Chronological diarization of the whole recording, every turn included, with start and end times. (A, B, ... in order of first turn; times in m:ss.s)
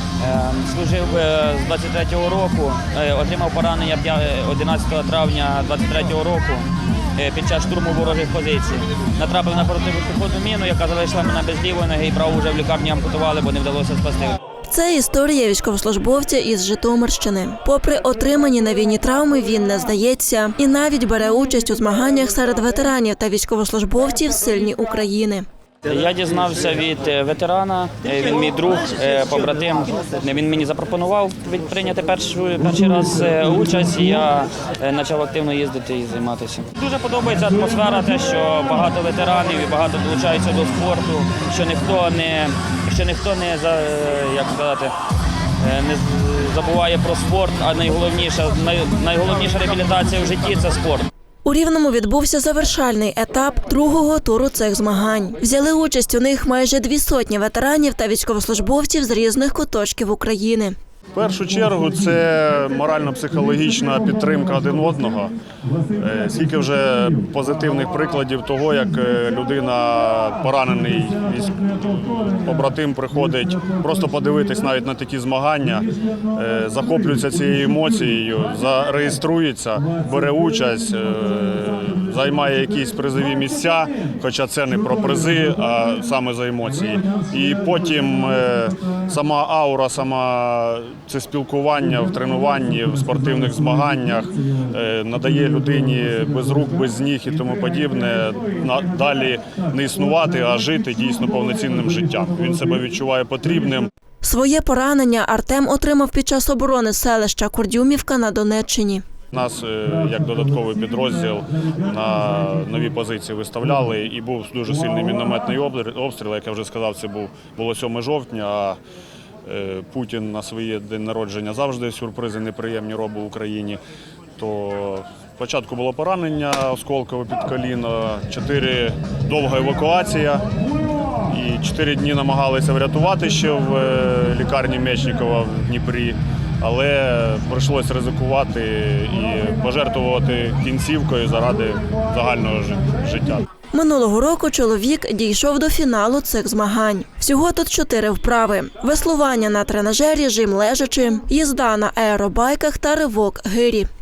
0:00.2-0:14.4 A
0:14.7-0:25.5 B
0:25.8-0:44.9 A
0:45.6-0:51.1 A
0:51.4-1:00.8 B
1:01.1-1:05.3 C
1:06.0-1:43.9 C
1:44.2-1:49.0 B
1:49.3-1:58.8 C
1:59.4-2:03.8 C
2:04.4-2:10.4 C
2:11.3-2:23.4 C
2:23.7-2:33.9 B